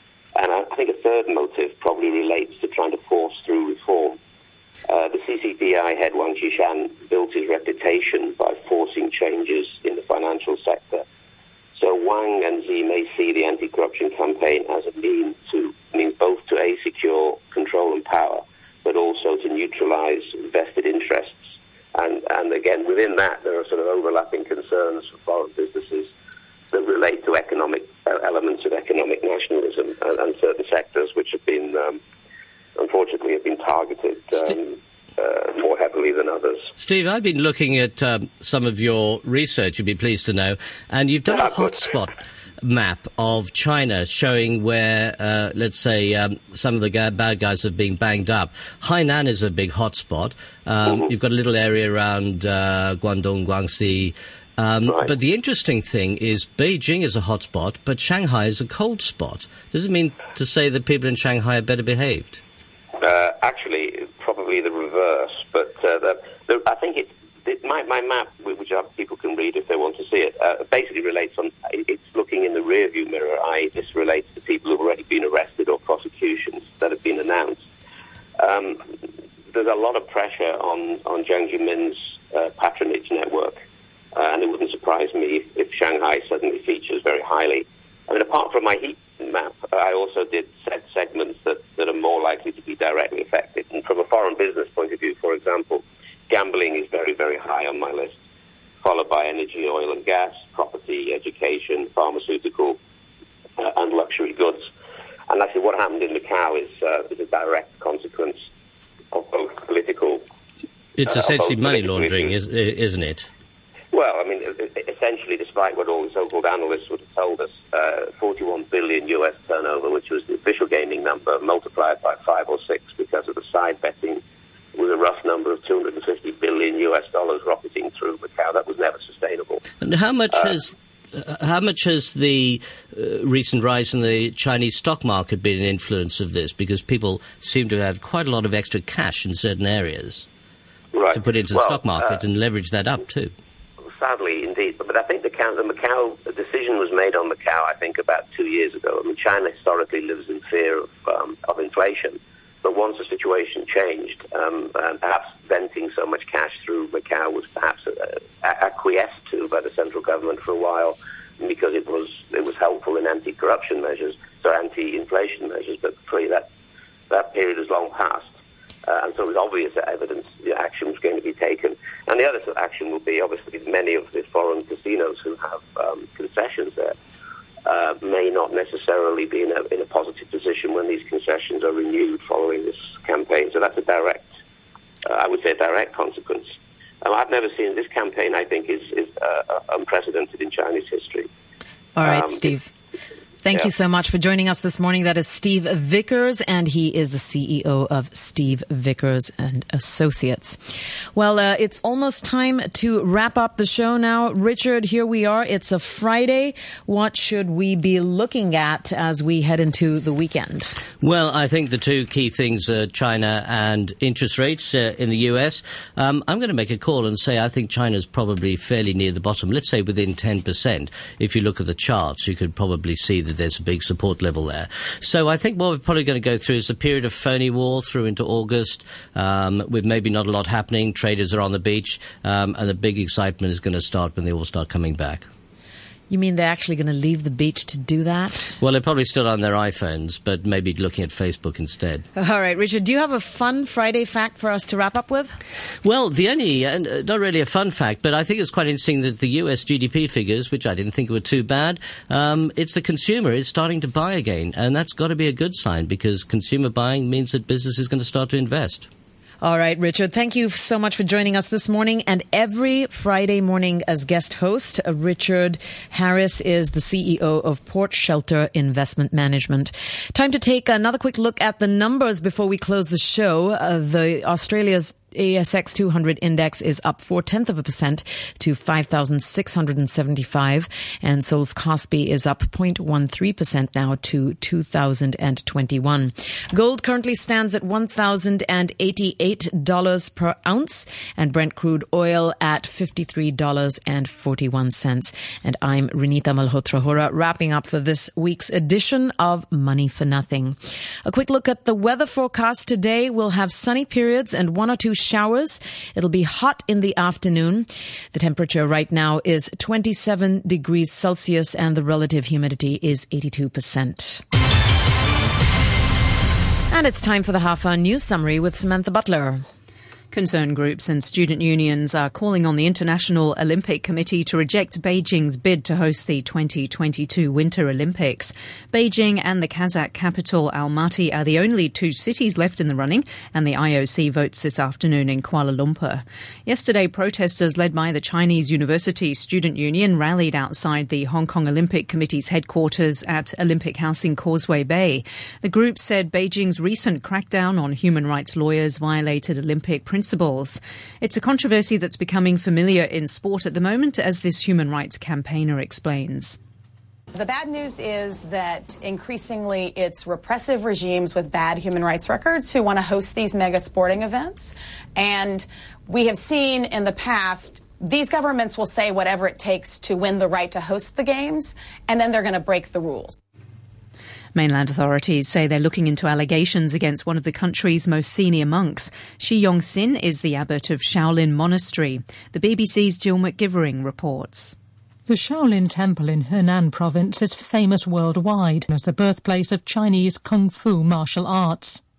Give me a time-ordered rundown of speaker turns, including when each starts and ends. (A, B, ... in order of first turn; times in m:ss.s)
0:00.4-0:04.2 A
0:04.9-0:11.0 A
0:11.8-0:21.4 A
0:22.0-0:26.1 A
0:26.7-0:32.0 A
0:32.8-0:36.7 A
0:36.8-0:42.1 B
0:42.6-1:02.4 B
1:03.0-1:17.7 A
1:18.4-1:18.9 A
1:19.5-1:23.6 A
1:24.2-1:38.2 A
1:38.8-1:42.8 A
1:43.6-1:44.7 A
1:45.3-1:48.5 A
1:49.1-1:50.2 A
1:51.0-1:53.3 B
1:51.2-1:52.3 A
1:53.9-2:04.2 A
2:04.7-2:09.6 A
2:09.8-2:20.2 B
2:20.9-2:22.2 A
2:21.1-2:23.3 B
2:24.0-2:46.5 A
2:47.1-2:48.3 A
2:48.9-2:57.0 A
2:57.6-3:04.3 A
3:05.0-3:11.3 A
3:12.0-3:12.7 C
3:12.0-3:12.5 A
3:13.4-3:30.7 C
3:31.0-3:55.3 B
3:56.1-3:58.6 C
3:58.6-4:02.1 B
4:02.2-4:05.4 C
4:05.8-4:18.9 B
4:19.4-5:14.2 C
5:16.7-5:19.4 C
5:20.1-5:56.4 D
5:57.2-6:13.2 E
6:14.4-6:24.6 D
6:25.1-6:31.8 F